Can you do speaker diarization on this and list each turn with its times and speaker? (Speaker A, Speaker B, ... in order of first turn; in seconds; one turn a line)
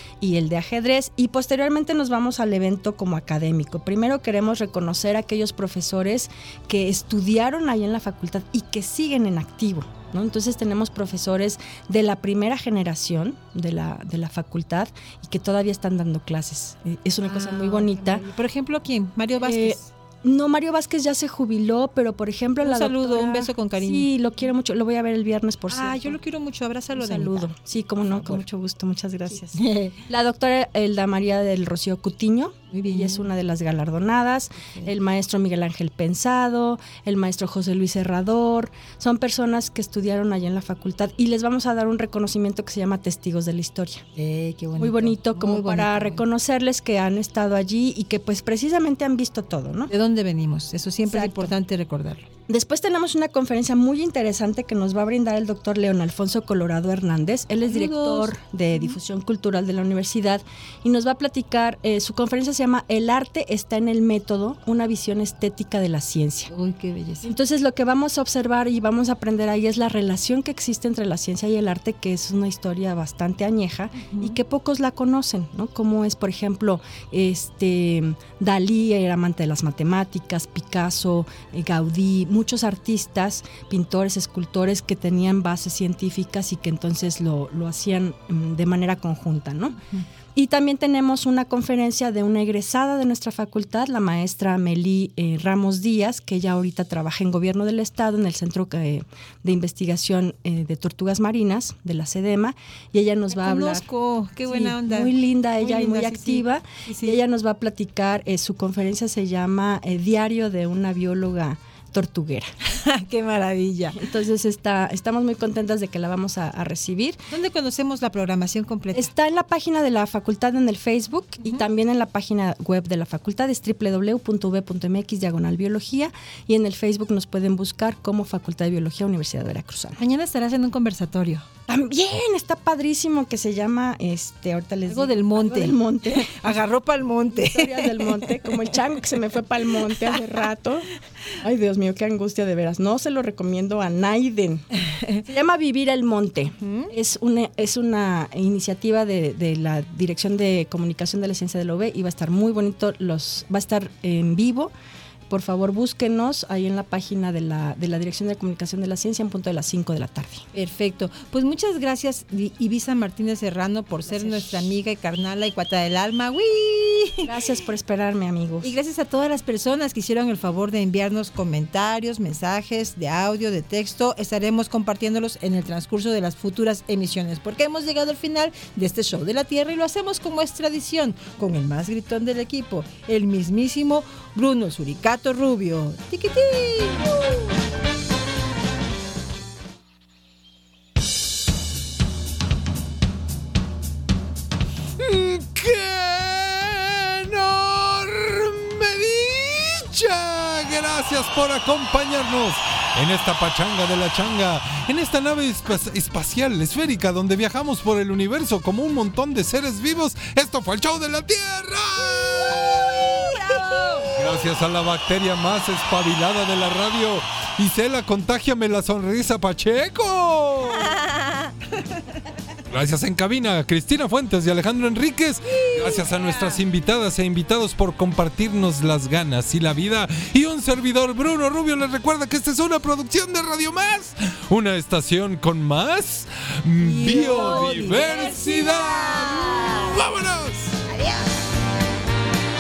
Speaker A: 0.2-18.2
Speaker B: 17.2-19.9
Speaker A: 19.4-26.2
Speaker B: 22.6-24.1
Speaker B: 25.7-28.4
Speaker A: 26.9-44.1
Speaker B: 29.3-30.0
Speaker B: 32.7-33.3
Speaker B: 34.6-34.9
Speaker B: 44.2-46.2
Speaker A: 44.8-49.9
Speaker B: 49.9-52.3
Speaker A: 51.0-51.5
Speaker A: 52.5-66.5
Speaker B: 57.7-59.0
Speaker B: 66.5-67.3
Speaker A: 67.2-89.8
Speaker B: 74.0-74.4
Speaker B: 89.7-90.0
Speaker A: 90.3-103.9
Speaker B: 103.3-107.2
Speaker A: 104.5-112.5
Speaker B: 112.7-114.0
Speaker A: 114.0-117.2
Speaker B: 117.3-119.1
Speaker A: 118.9-130.0
Speaker B: 130.0-131.4
Speaker A: 131.7-136.5
Speaker B: 134.9-138.4
Speaker A: 137.3-140.9
Speaker A: 141.4-144.7
Speaker B: 144.9-145.2
Speaker A: 145.3-154.7
Speaker B: 146.6-146.9
Speaker A: 155.3-160.5
Speaker B: 160.5-167.3
Speaker A: 164.1-164.7
Speaker A: 167.2-168.7
Speaker B: 168.6-187.4
Speaker C: 195.0-213.4
Speaker B: 213.3-214.1
Speaker C: 214.1-220.9
Speaker C: 222.7-240.8
Speaker B: 225.6-226.6
Speaker B: 236.8-238.4